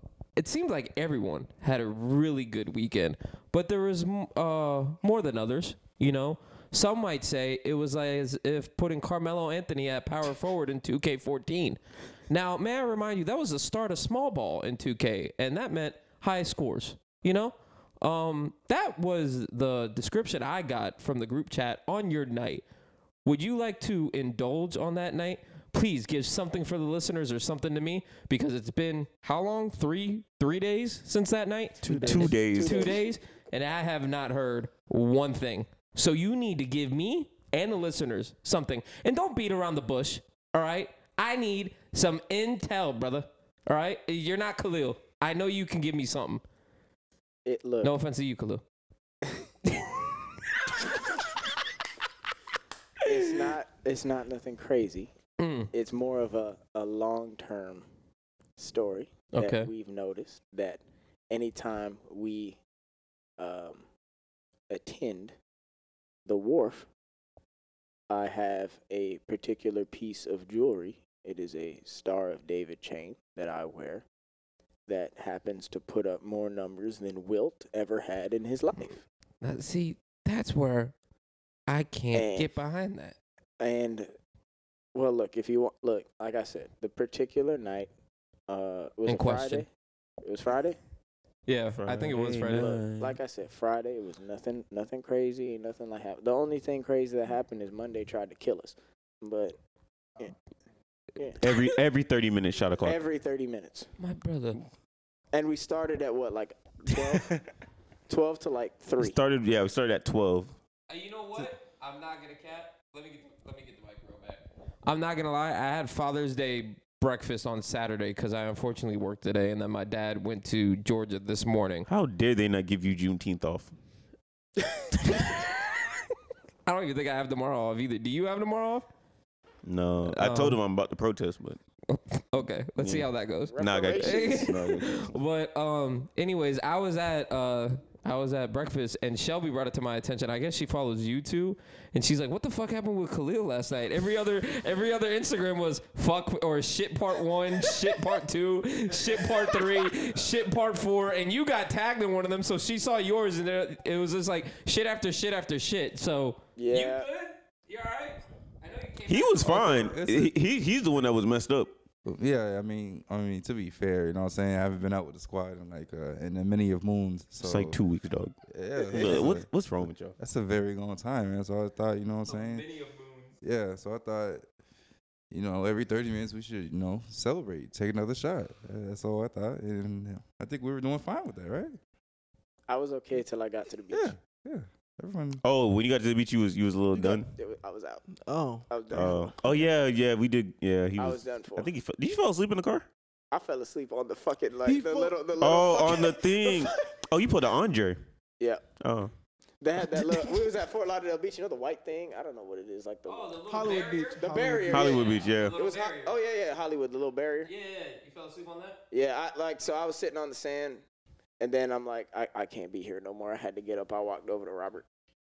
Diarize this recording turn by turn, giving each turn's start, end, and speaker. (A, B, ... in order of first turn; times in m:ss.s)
0:00.4-0:22.6 A
0:23.2-0:46.4 A
0:31.8-0:32.3 B
0:31.9-0:33.0 C
0:32.0-0:33.1 D
0:47.4-0:47.9 D
0:47.8-0:48.6 A
0:53.0-0:55.1 D
0:55.4-0:55.7 A
0:55.7-0:57.9 D
0:58.6-1:02.6 D
0:59.3-0:59.7 A
1:03.4-1:03.8 D
1:04.7-1:05.4 D
1:06.3-1:06.9 D
1:08.1-1:14.0 D
1:14.9-1:19.0 D
1:19.4-1:20.9 A
1:21.7-1:23.2 A
1:22.1-1:22.5 D
1:23.6-1:24.1 D
1:24.9-1:27.9 D
1:28.5-1:29.7 D
1:29.1-1:29.7 A
1:30.2-1:30.8 D
1:31.5-1:32.8 A
1:31.8-1:33.2 C
1:32.5-1:39.6 D
1:41.4-1:43.0 C
1:42.8-1:43.9 D
1:44.0-1:44.6 A
1:45.3-1:47.3 D
1:47.1-1:47.4 C
1:48.1-1:49.2 D
1:49.0-1:50.6 C
1:50.9-2:01.9 A
2:01.9-2:03.7 C
2:06.6-2:08.9 A
2:09.6-2:11.6 C
2:10.0-2:10.6 A
2:11.9-2:40.0 A
2:12.8-2:15.0 C
2:13.5-2:14.6 D
2:36.6-2:37.1 D
2:39.1-2:41.7 C
2:39.4-2:40.4 E
2:42.0-2:47.8 E
2:47.4-2:50.1 C
2:48.5-2:52.6 E
2:52.2-2:53.4 A
2:53.4-2:54.5 E
2:55.3-3:01.8 E
3:02.7-3:04.2 D
3:03.9-3:05.4 E
3:05.4-3:07.3 C
3:07.0-3:08.2 D
3:08.1-3:09.4 B
3:08.7-3:09.4 D
3:08.9-3:12.9 C
3:11.0-3:11.7 D
3:13.3-3:16.8 D
3:14.6-3:15.2 B
3:15.4-3:18.0 C
3:18.8-3:19.1 C
3:19.6-3:23.4 D
3:20.0-3:20.3 C
3:23.1-3:26.2 A
3:23.5-3:24.8 B
3:24.2-3:27.5 D
3:24.7-3:25.6 C
3:27.4-3:28.8 A
3:28.9-3:30.8 D
3:31.4-3:34.9 D